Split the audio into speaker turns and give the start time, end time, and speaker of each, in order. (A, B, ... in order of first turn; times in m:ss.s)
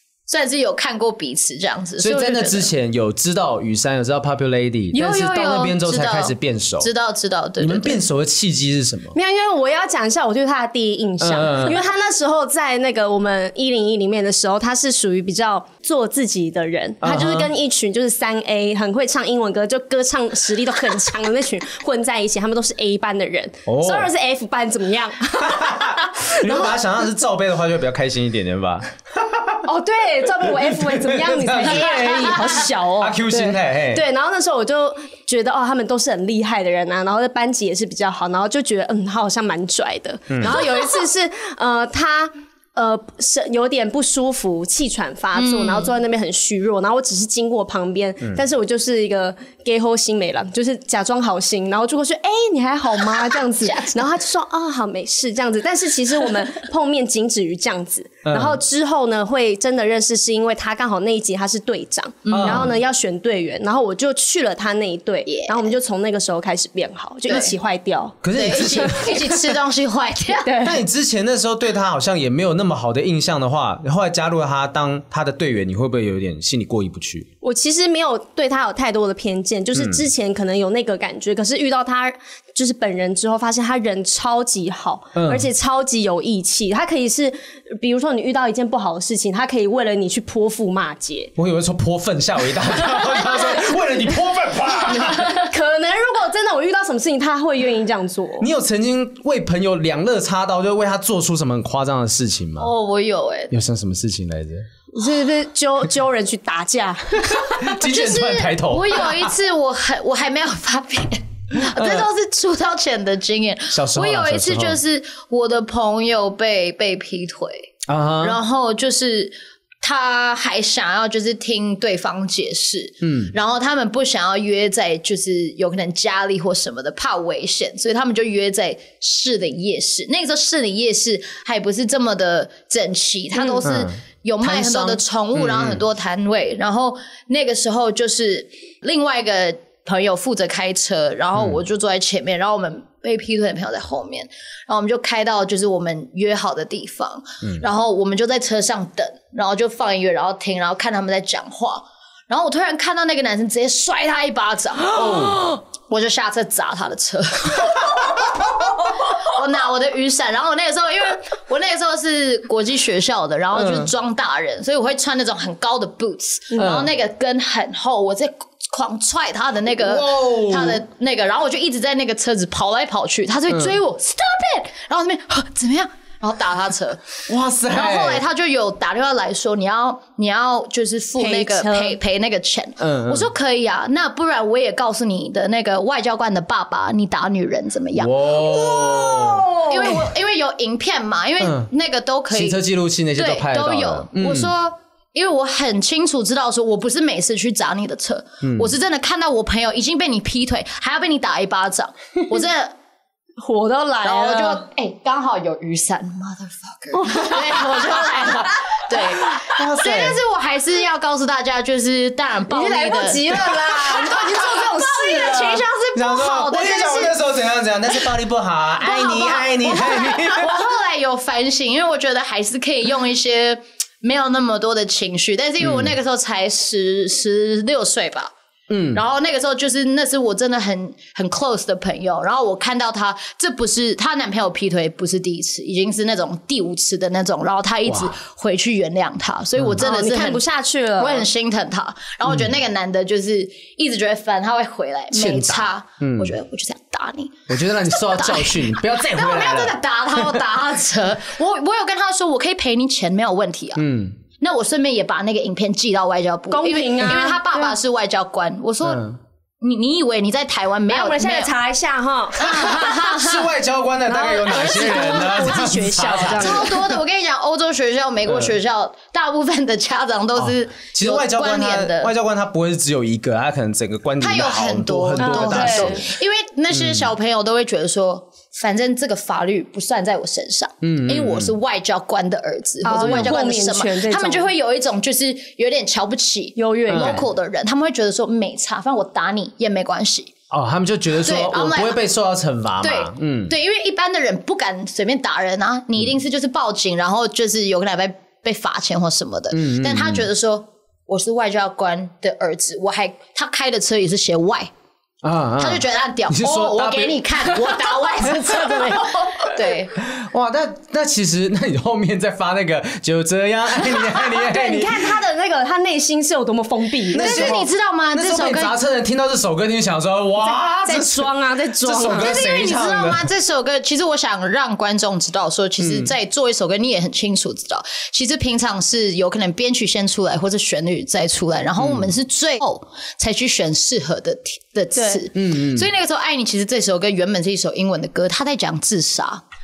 0:00.3-0:02.7 A
0:02.0-0:06.9 B
0:04.9-0:08.0 A
0:07.6-0:09.2 B
0:09.1-0:26.8 C
0:11.2-0:11.8 B
0:17.0-0:17.5 B
0:23.7-0:24.1 B
0:25.4-0:29.6 B
0:29.6-1:09.0 C
0:30.4-0:34.0 B
0:40.3-0:40.6 B
0:45.4-0:45.9 A
0:53.6-0:54.0 A
0:58.3-0:58.6 B
1:02.2-1:02.7 A
1:02.3-1:02.7 B
1:05.3-1:05.7 A
1:07.3-1:07.5 A
1:08.2-1:09.3 B
1:08.3-1:10.5 A
1:10.4-1:10.8 C
1:10.6-1:17.3 B
1:17.4-1:31.3 C
1:19.7-1:20.0 B
1:25.2-1:25.5 B
1:31.4-1:35.4 B
1:32.9-1:33.5 C
1:34.9-1:38.5 C
1:38.4-1:42.7 B
1:42.6-1:43.5 A
1:43.5-1:44.7 B
1:44.9-1:47.7 C
1:47.6-1:49.3 B
1:47.8-2:57.2 A
1:51.6-1:52.1 B
1:53.7-1:54.8 B
1:57.9-1:58.4 B
2:03.0-2:03.3 B
2:13.6-2:15.8 B
2:21.4-2:21.6 B
2:34.9-2:35.4 B
2:43.5-2:43.9 B
2:46.6-2:46.9 B
2:49.7-2:50.8 B
2:57.3-2:58.2 B
2:57.7-3:08.4 A
3:01.2-3:02.0 C
3:02.8-3:03.3 B
3:08.0-3:10.0 B
3:08.4-3:10.0 C
3:09.6-3:12.6 A
3:11.4-3:11.7 B
3:12.3-3:14.5 B
3:13.2-3:22.8 A
3:18.4-3:18.7 B
3:23.4-3:24.6 C
3:24.0-3:37.2 A
3:26.9-3:29.0 C
3:29.5-3:30.2 B
3:32.5-3:35.7 C
3:35.9-3:40.7 B
3:38.8-3:48.3 A
3:39.6-3:40.2 C
3:45.6-3:45.9 B
3:48.7-3:49.0 B
3:48.9-4:00.4 A
3:57.9-3:58.1 B
3:59.8-4:01.3 C
4:01.0-4:13.8 A
4:05.1-4:06.3 B
4:07.5-4:10.3 B
4:13.8-4:14.2 B
4:14.4-4:19.1 A
4:16.5-4:17.8 C
4:18.8-4:19.2 B
4:19.6-4:21.5 A
4:20.9-4:22.8 C
4:22.4-4:23.5 A
4:22.6-4:26.9 B
4:24.1-4:26.7 C
4:26.3-4:32.1 A
4:28.3-4:28.6 B
4:30.4-4:36.1 B
4:34.2-4:50.3 A
4:35.2-4:36.0 C
4:36.7-4:37.1 B
4:40.8-4:41.5 B
4:42.8-4:44.5 C
4:46.6-4:47.2 C
4:46.9-4:47.2 B
4:50.5-4:53.5 B
4:51.2-4:52.0 A
4:52.8-5:04.7 A
4:59.5-5:00.3 B
5:05.2-5:08.9 B
5:05.6-5:10.0 A
5:10.0-5:15.2 B
5:13.9-5:17.6 C
5:17.1-5:23.3 B
5:17.2-5:18.8 A
5:20.8-5:22.4 C
5:22.1-5:39.4 A
5:25.8-5:26.1 B
5:31.8-5:32.1 B
5:35.0-5:35.2 C
5:35.4-5:35.9 B